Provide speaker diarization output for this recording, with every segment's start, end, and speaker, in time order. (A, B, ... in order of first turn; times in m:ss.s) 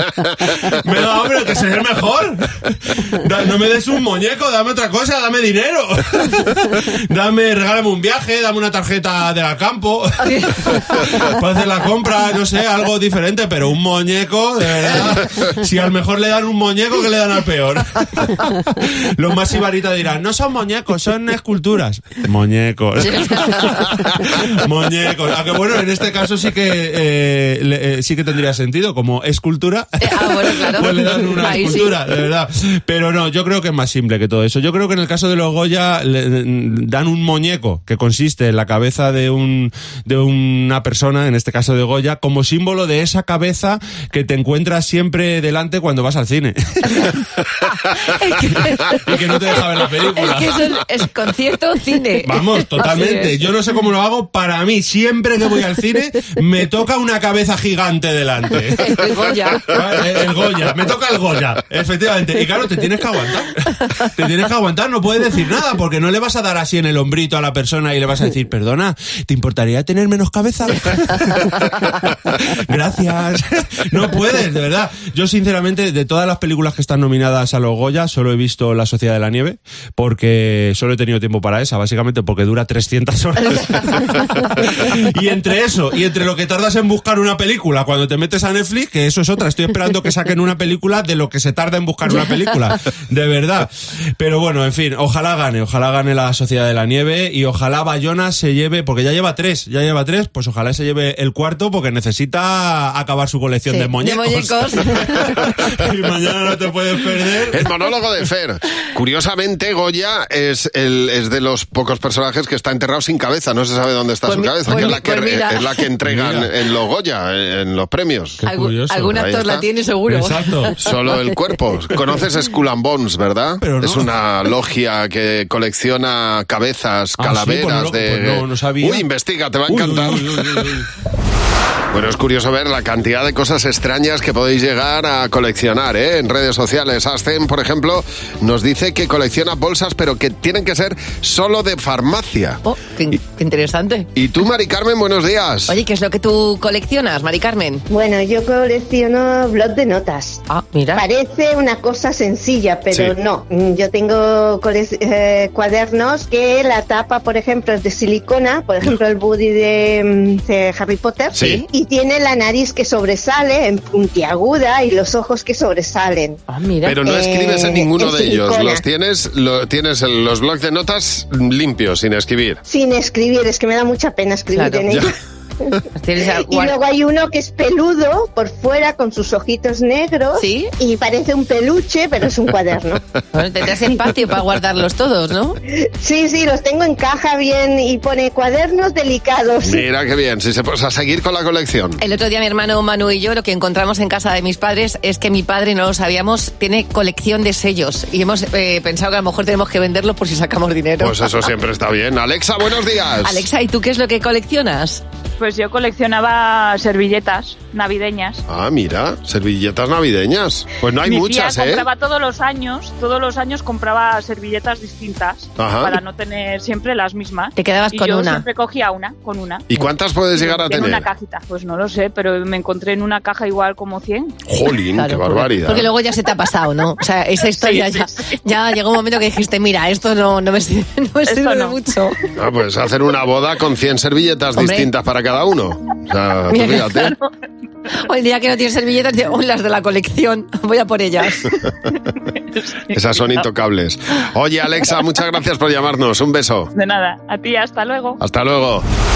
0:00.6-0:47.1 A
0:23.0-0:23.9 B
0:30.0-0:31.9 B
0:47.9-0:53.4 B
0:48.9-0:50.6 A
0:52.2-0:59.1 A
0:58.7-0:59.8 B
0:59.6-1:47.7 A
1:43.7-1:45.1 B
1:47.5-1:58.4 C
1:54.2-1:55.6 B
1:56.0-1:56.5 A
1:58.4-1:59.0 A
1:58.4-2:00.7 B
1:59.0-1:59.6 C
2:00.1-2:00.8 A
2:00.8-2:10.7 C
2:03.6-2:04.1 A
2:07.2-2:09.0 A
2:09.7-2:10.8 A
2:11.9-2:22.6 C
2:22.6-2:24.1 B
2:24.1-2:25.7 C
2:25.7-2:27.8 B
2:27.9-2:30.4 D
2:30.5-2:31.0 B
2:30.9-2:46.4 D
2:41.3-2:41.6 C
2:46.5-2:47.0 B
2:46.8-2:52.6 C
2:47.0-2:48.8 D
2:52.6-2:55.1 D
2:54.5-2:54.8 B
2:56.0-2:56.7 B
2:56.4-3:03.0 D
3:00.4-3:00.7 B
3:03.3-3:05.6 B
3:06.0-3:09.8 D
3:09.6-3:12.0 C
3:12.0-3:21.3 B
3:21.0-3:23.4 C
3:23.2-3:25.0 B
3:25.4-3:28.4 E
3:28.5-3:31.8 C
3:31.0-3:39.6 E
3:35.6-3:36.0 C
3:37.6-3:38.4 B
3:39.7-3:41.1 C
3:40.3-3:44.3 E
3:44.5-3:45.9 C
3:45.0-3:52.2 B
3:51.3-3:51.8 E
3:52.4-3:57.1 C
3:54.6-3:54.9 B
3:56.5-3:57.3 B
3:57.9-4:01.5 B
4:02.9-4:06.7 C
4:06.7-4:08.2 E
4:08.2-4:08.9 C